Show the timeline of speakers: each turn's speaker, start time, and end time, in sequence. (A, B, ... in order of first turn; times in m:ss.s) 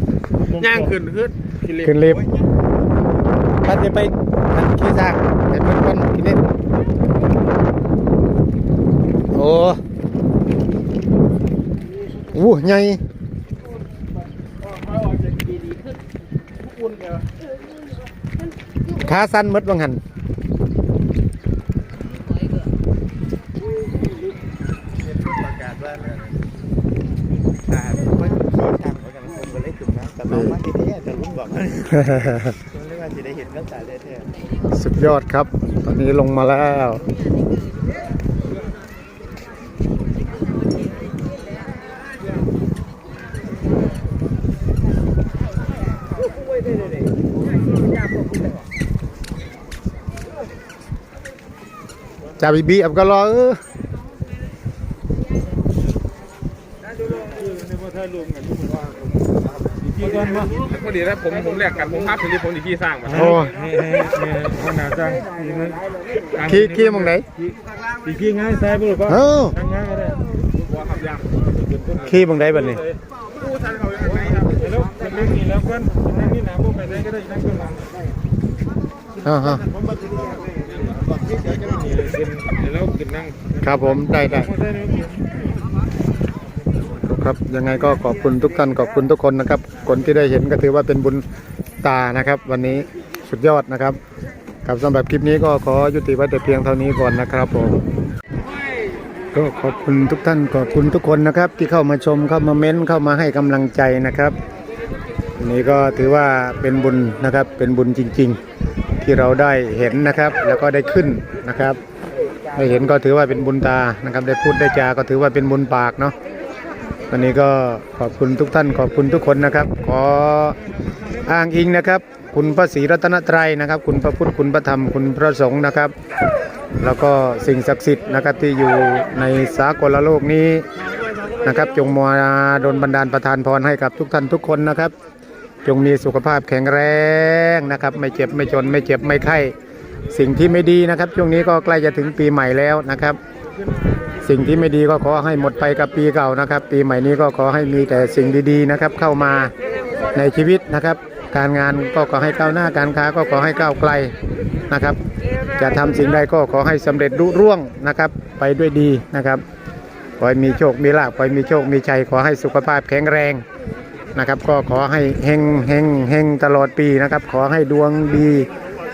0:00.6-0:02.0 A
0:00.6-0:00.9 B
0:01.8-0:02.2 C
0:02.0-0:02.6 D
0:03.6-0:06.4 C
0:09.3-0:09.8 C
0:12.3-0:13.0 C
0:14.6-0:15.9 A
0:16.6-0:17.2 A
0:18.9-0:20.0 C
0:25.0-0:26.3 D
0:27.6-0:34.3 D
0:30.3-0:30.5 C
0:32.0-0:32.5 C
0:34.7-0:37.0 C
0:52.4-0:53.6 C
0:57.0-1:00.7 B
1:00.7-1:03.1 E
1:03.0-1:10.2 B
1:03.1-1:03.6 C
1:06.4-1:07.2 C
1:09.0-1:09.6 C
1:10.7-1:11.2 E
1:11.5-1:13.0 B
1:12.0-1:12.8 C
1:13.6-1:14.1 D
1:13.8-1:17.9 B
1:19.2-1:19.6 C
1:19.3-1:22.0 D
1:21.5-1:25.3 B
1:23.6-1:24.5 C
1:27.0-1:31.2 C
1:31.8-1:34.0 C
1:34.6-1:37.8 C
1:39.3-1:44.4 C
1:45.4-1:48.4 C
1:49.0-1:51.8 C
1:52.5-1:56.1 C
1:57.1-2:00.6 C
2:01.2-2:05.9 C
2:06.8-2:10.7 C
2:11.4-2:14.9 C
2:15.6-2:19.5 C
2:20.1-2:23.2 C
2:24.2-2:29.5 C
2:30.1-2:34.1 C
2:34.7-2:35.0 C
2:35.6-2:39.4 C
2:40.2-2:43.4 C
2:44.1-2:48.5 C